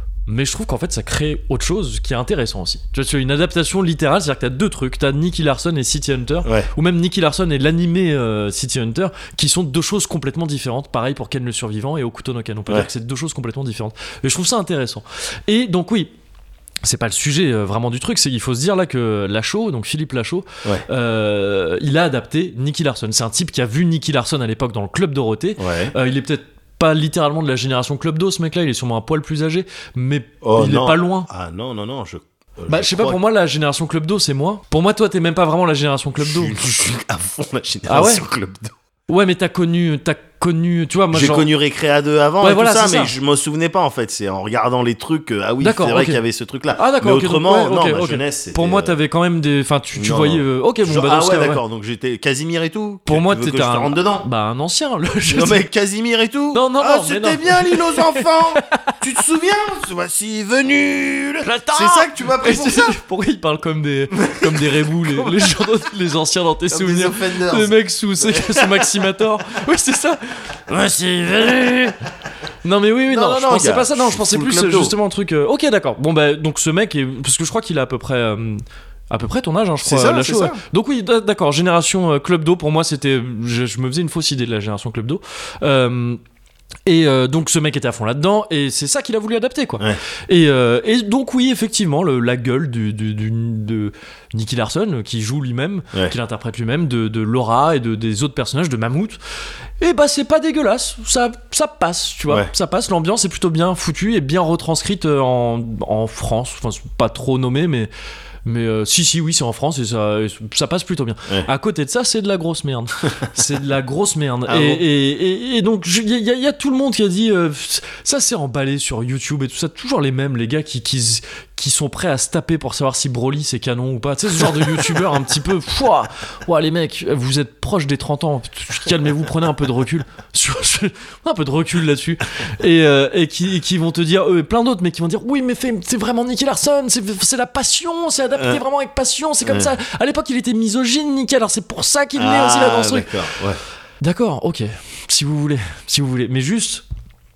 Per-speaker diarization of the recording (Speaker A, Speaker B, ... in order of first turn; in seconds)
Speaker A: 0.3-16.1, 16.8-31.3, 32.7-36.6, 37.9-38.2, 39.1-41.5, 42.4-43.1, 45.6-46.2, 46.7-51.6, 53.1-55.6, 56.5-58.9, 61.4-72.0, 72.6-86.2, 86.8-99.2, 99.8-107.9, 108.4-143.1, 144.0-146.8
Speaker B: 6.4-6.7, 25.6-25.9, 30.4-33.2, 36.2-38.7, 41.1-48.9, 49.9-54.3, 55.3-63.0, 64.1-65.6, 66.7-69.1, 73.1-74.9, 79.8-80.6, 114.5-114.8, 138.3-138.6, 139.4-139.7, 142.2-143.6